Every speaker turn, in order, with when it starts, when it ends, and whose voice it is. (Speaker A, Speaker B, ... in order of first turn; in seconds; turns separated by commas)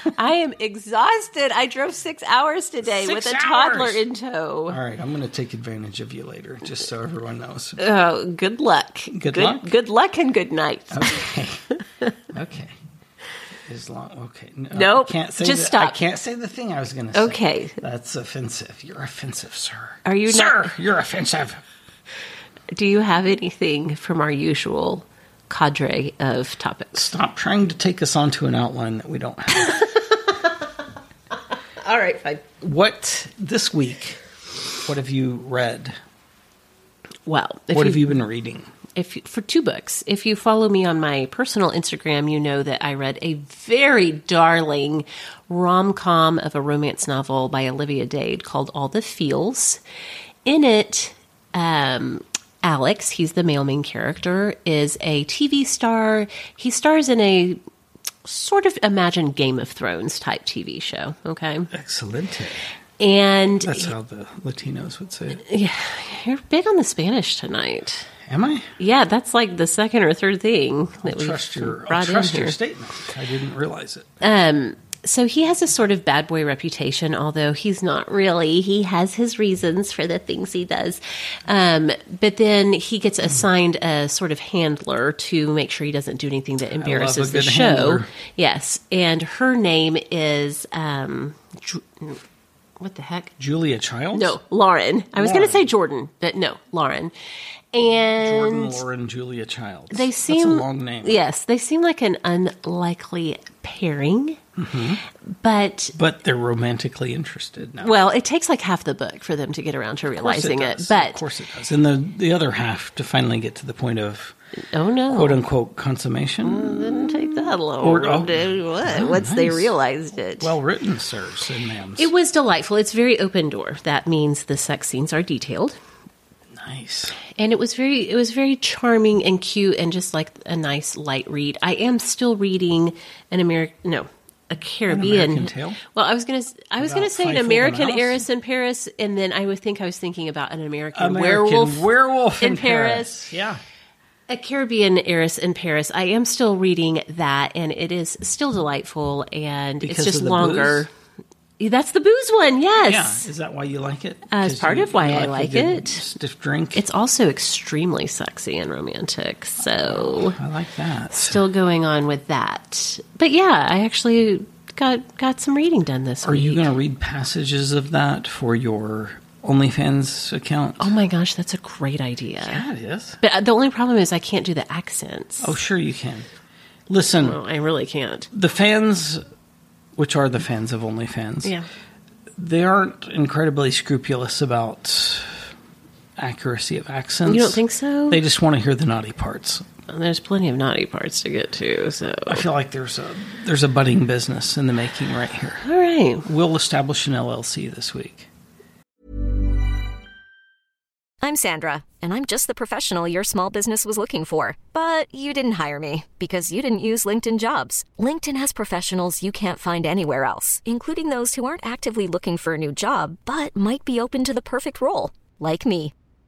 Speaker A: 0.1-4.8, Speaker B: 2.8-4.0, Speaker B: 4.7-7.8, Speaker A: 7.8-11.2, Speaker B: 9.1-9.7, Speaker B: 10.9-11.6, Speaker B: 12.3-12.7, Speaker B: 13.7-21.6, Speaker A: 14.7-16.0, Speaker A: 17.1-17.8, Speaker A: 20.0-20.7, Speaker A: 22.7-26.9, Speaker B: 26.9-29.8, Speaker A: 29.6-30.4, Speaker A: 31.8-32.4, Speaker B: 32.6-34.2, Speaker B: 34.8-35.9, Speaker A: 37.2-38.1, Speaker B: 37.7-38.7, Speaker A: 38.9-49.8, Speaker A: 50.4-57.6, Speaker A: 58.2-61.7, Speaker B: 61.7-62.6, Speaker A: 63.0-63.9, Speaker B: 63.6-65.4, Speaker A: 65.4-68.1, Speaker B: 68.2-68.7, Speaker A: 68.8-72.6, Speaker B: 71.0-74.1, Speaker A: 74.2-92.2, Speaker B: 86.8-88.1, Speaker A: 92.8-93.3, Speaker B: 93.4-94.4, Speaker A: 94.1-97.1, Speaker B: 95.2-95.7, Speaker A: 97.7-98.8, Speaker B: 98.2-101.2, Speaker A: 99.9-104.4, Speaker B: 104.5-105.0, Speaker A: 105.4-105.9, Speaker B: 105.9-108.0, Speaker A: 107.8-111.2, Speaker B: 110.2-114.3, Speaker A: 114.7-115.4, Speaker B: 115.1-119.7, Speaker A: 116.4-120.5, Speaker B: 120.4-122.1, Speaker A: 122.0-125.8, Speaker B: 126.5-127.2, Speaker A: 127.3-141.9, Speaker B: 134.9-135.8, Speaker B: 136.8-138.2, Speaker B: 140.9-143.6, Speaker A: 142.4-143.1, Speaker A: 144.3-150.9, Speaker B: 149.8-150.8, Speaker A: 151.6-153.2, Speaker B: 152.8-156.8, Speaker A: 154.3-156.0, Speaker A: 156.7-160.4, Speaker B: 159.6-161.4, Speaker A: 161.1-166.7, Speaker B: 166.2-170.9, Speaker A: 170.8-172.6, Speaker B: 172.4-173.2, Speaker A: 173.2-175.5, Speaker B: 175.4-176.3, Speaker B: 176.9-177.4, Speaker A: 177.2-178.3, Speaker B: 178.3-179.2, Speaker B: 179.9-181.5, Speaker B: 182.4-185.4, Speaker B: 186.2-189.7, Speaker A: 187.2-188.2, Speaker A: 189.9-192.4, Speaker B: 192.2-195.6, Speaker A: 195.6-196.3, Speaker B: 196.2-198.3, Speaker C: 201.2-215.9